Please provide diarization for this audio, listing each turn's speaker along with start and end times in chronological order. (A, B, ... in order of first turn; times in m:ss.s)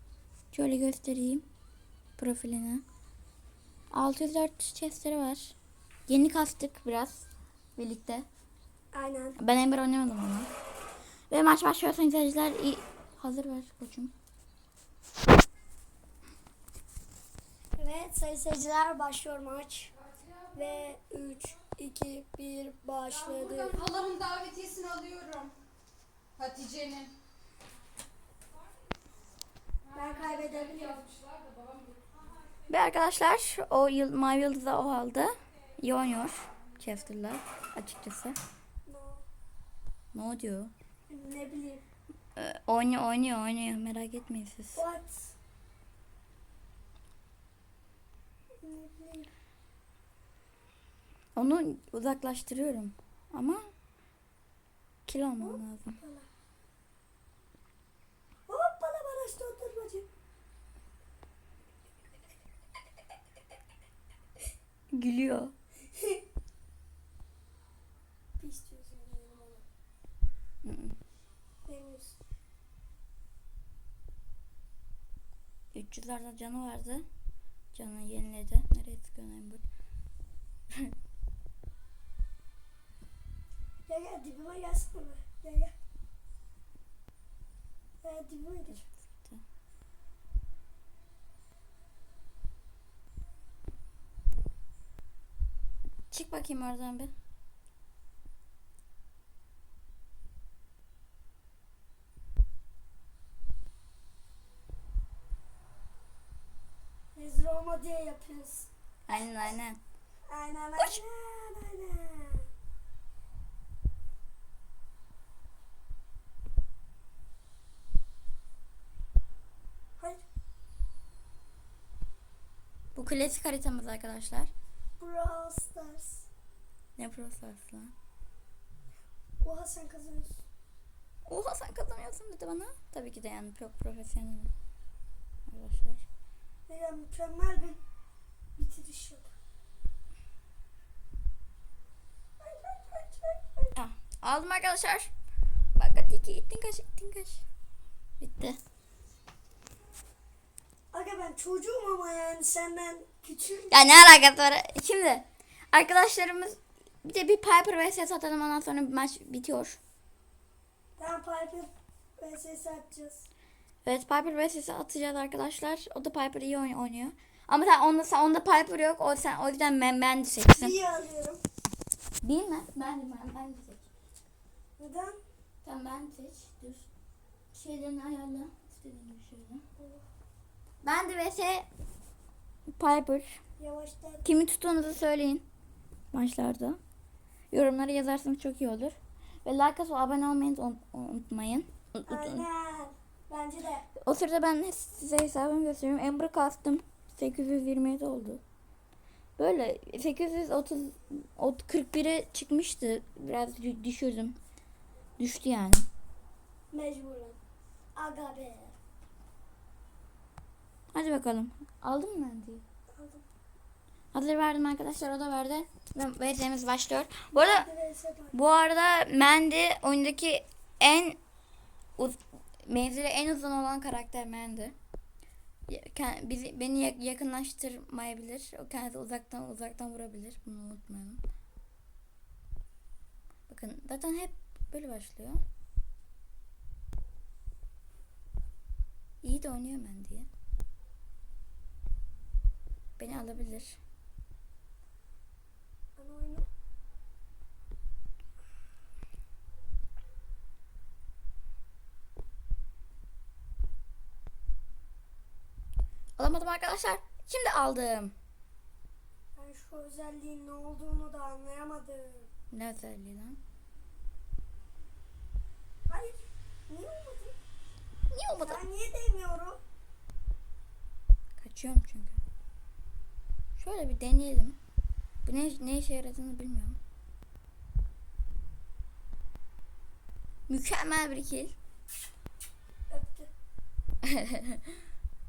0:00.5-0:01.4 A
0:02.2-0:02.8 A
0:03.9-0:05.5 A
0:06.1-0:08.2 A
0:08.9-0:09.4 B
0:09.4-0:10.5 A
0:11.3-0:14.1 A
0:17.8-0:19.9 B
0:20.5-0:23.9 B
0:23.8-0:25.5 C
0:26.4-0:27.1 C
0:29.9-0:31.0 B
0:31.0-0:31.9 C
0:32.7-0:38.4 A
0:38.9-0:39.2 B
0:40.1-0:40.7 A
0:41.1-0:41.8 B
0:42.4-0:44.8 A
0:44.8-0:45.3 B
0:48.6-0:49.3 B
0:51.3-0:53.7 A
0:55.1-0:56.0 A
0:55.4-0:56.3 B
0:58.5-1:00.1 B
1:04.9-1:05.5 A
1:05.9-1:06.2 B
1:08.4-1:09.6 B
1:10.6-1:11.0 A
1:11.6-1:12.2 B
1:15.7-1:17.0 A
1:17.7-1:19.6 A
1:23.9-1:25.7 B
1:28.0-1:28.8 B
1:28.7-1:29.4 A
1:36.1-1:37.1 A
1:47.1-1:48.7 B
1:49.1-1:49.8 A
1:50.3-1:52.5 B
2:00.0-2:00.2 B
2:02.9-2:04.5 A
2:05.0-2:06.3 B
2:07.0-2:07.9 A
2:09.4-2:10.4 B
2:11.3-2:14.5 A
2:15.5-2:16.0 A
2:16.7-2:17.8 B
2:18.6-2:19.3 B
2:22.4-2:23.7 B
2:23.7-2:25.1 A
2:25.8-2:27.4 A
2:28.2-2:28.6 A
2:30.9-2:33.8 B
2:33.7-2:39.8 A
2:41.0-2:43.3 B
2:43.8-2:50.7 A
2:50.5-2:51.4 B
2:52.2-2:53.9 A
2:54.8-2:55.2 B
2:55.6-2:56.9 A
2:57.5-2:59.6 A
2:59.8-3:00.0 B
3:00.8-3:01.6 A
3:02.8-3:03.4 A
3:03.6-3:04.2 B
3:04.2-3:05.4 A
3:06.1-3:06.8 A
3:07.5-3:12.4 A
3:12.0-3:13.9 B
3:14.0-3:18.4 A
3:19.4-3:24.4 A
3:25.2-3:25.8 A
3:26.7-3:27.4 B
3:28.0-3:28.8 B
3:30.9-3:32.6 A
3:32.9-3:33.2 B
3:34.1-3:37.7 A
3:37.3-3:38.4 B
3:38.3-3:41.2 A
3:42.0-3:44.7 A
3:45.7-3:51.2 A
3:53.5-3:55.4 A
3:59.2-4:00.3 A
4:03.0-4:03.8 A
4:06.0-4:06.5 B
4:16.2-4:18.1 A
4:19.4-4:22.3 B
4:22.5-4:23.4 A
4:25.9-4:27.4 B
4:28.1-4:28.6 A
4:28.4-4:29.6 B
4:31.4-4:32.2 A
4:33.6-4:34.6 A
4:35.2-4:36.8 A
4:40.5-4:41.5 A
4:42.9-4:43.3 B
4:44.0-4:44.6 A